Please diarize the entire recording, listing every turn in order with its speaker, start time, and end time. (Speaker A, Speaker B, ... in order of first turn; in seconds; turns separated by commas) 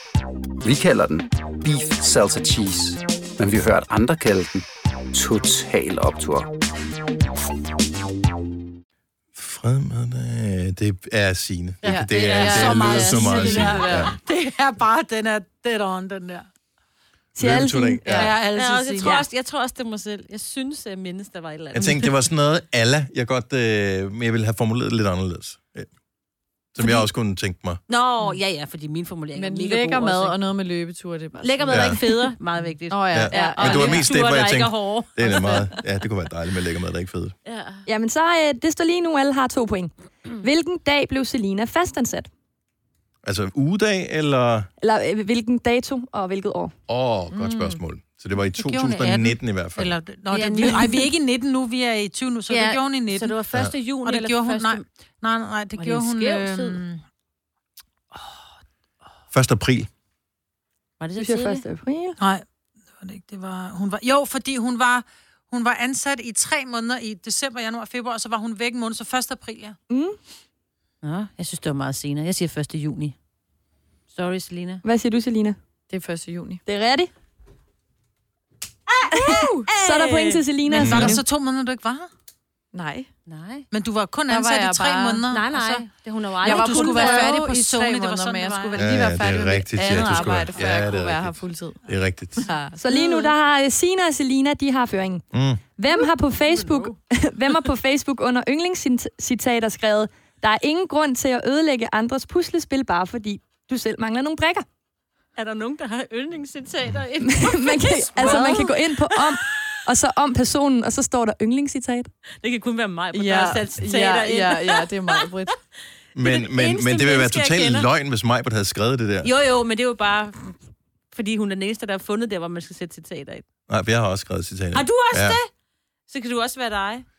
Speaker A: 0.6-6.5, Speaker B: 9.3-14.2, Speaker C: 11.8-14.1, Speaker D: 12.1-14.0, Speaker E: 12.1-16.5, Speaker F: 17.4-18.2, Speaker B: 17.4-18.4, Speaker C: 18.1-18.3, Speaker E: 18.1-19.3, Speaker D: 18.5-22.1, Speaker B: 21.7-25.9, Speaker B: 26.7-27.8, Speaker D: 27.9-30.4, Speaker C: 29.4-32.3, Speaker D: 31.4-35.8, Speaker B: 31.7-32.0, Speaker C: 32.9-34.1, Speaker B: 33.1-37.3, Speaker D: 37.5-37.9, Speaker F: 37.9-42.3, Speaker B: 43.2-44.7, Speaker F: 44.8-46.7, Speaker B: 46.9-50.0, Speaker D: 47.3-47.8, Speaker E: 48.6-53.4, Speaker D: 50.3-51.1, Speaker D: 52.5-54.8, Speaker E: 54.0-57.0, Speaker D: 55.8-56.8, Speaker B: 59.3-59.9, Speaker D: 61.0-61.6, Speaker F: 61.2-62.2, Speaker E: 62.2-62.5, Speaker E: 63.0-69.8, Speaker F: 69.9-70.2, Speaker D: 71.0-73.2, Speaker D: 74.1-74.8, Speaker F: 74.8-75.6, Speaker C: 75.9-76.6, Speaker F: 76.7-77.1, Speaker E: 79.0-79.3, Speaker F: 79.1-81.2, Speaker D: 79.7-80.0, Speaker E: 79.9-82.1, Speaker B: 80.8-81.2, Speaker C: 82.7-83.1, Speaker D: 83.3-83.7, Speaker E: 83.7-85.9, Speaker C: 84.3-85.2, Speaker D: 85.3-87.3, Speaker E: 86.4-89.2, Speaker C: 86.4-91.8, Speaker B: 88.8-92.5, Speaker E: 89.9-90.9, Speaker C: 92.4-93.2, Speaker F: 92.8-95.2, Speaker B: 95.3-95.6, Speaker F: 95.8-104.7, Speaker D: 105.4-109.7, Speaker F: 107.3-112.1, Speaker C: 108.2-108.7, Speaker D: 112.4-115.5, Speaker C: 113.1-115.5, Speaker B: 116.2-119.3, Speaker D: 116.2-117.9, Speaker D: 119.2-120.6, Speaker D: 121.1-123.4, Speaker B: 123.7-125.4, Speaker D: 124.7-125.5, Speaker D: 126.1-127.1